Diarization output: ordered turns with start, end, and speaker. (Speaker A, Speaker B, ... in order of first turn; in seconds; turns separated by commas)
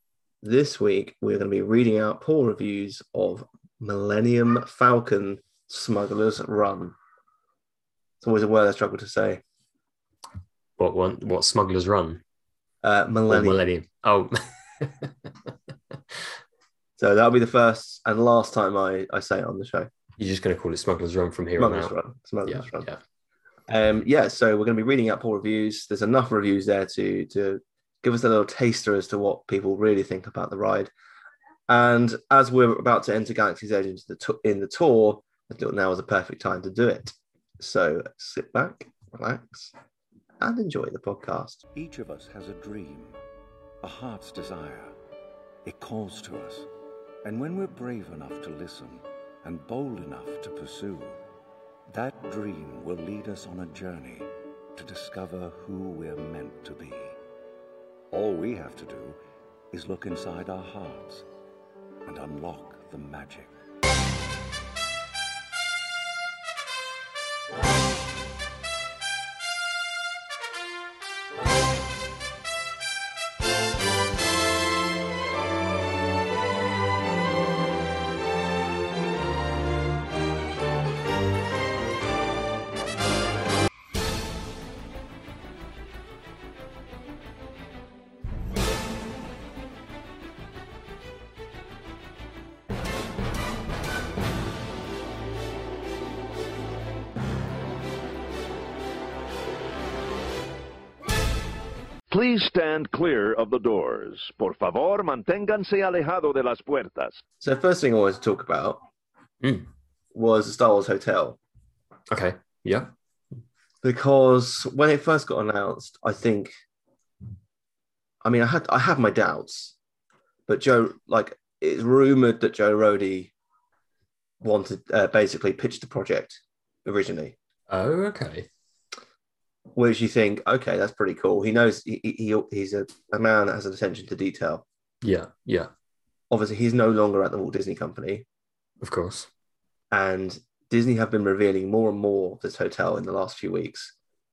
Speaker A: 0.4-7.0, Speaker A: 8.2-9.4, Speaker B: 10.8-12.2, Speaker A: 12.8-13.6, Speaker B: 13.3-15.3, Speaker A: 17.0-19.9, Speaker B: 20.2-21.9, Speaker A: 21.6-22.9, Speaker B: 22.5-23.0, Speaker A: 23.7-30.9, Speaker A: 31.7-39.7, Speaker A: 40.4-41.6, Speaker C: 41.7-43.2, Speaker C: 43.8-44.9, Speaker C: 45.6-46.7, Speaker C: 47.2-51.2, Speaker C: 51.9-57.2, Speaker C: 58.1-59.2, Speaker C: 59.7-61.2, Speaker C: 62.0-63.5, Speaker D: 102.1-107.2, Speaker A: 107.4-108.8, Speaker B: 109.4-109.7, Speaker A: 110.1-111.4, Speaker B: 112.1-112.9, Speaker A: 113.8-116.5, Speaker A: 118.2-119.7, Speaker A: 120.5-123.3, Speaker A: 124.4-127.3, Speaker B: 127.7-128.5, Speaker A: 129.8-134.6, Speaker B: 135.0-135.7, Speaker A: 136.3-138.2, Speaker B: 138.8-139.3, Speaker A: 139.9-143.9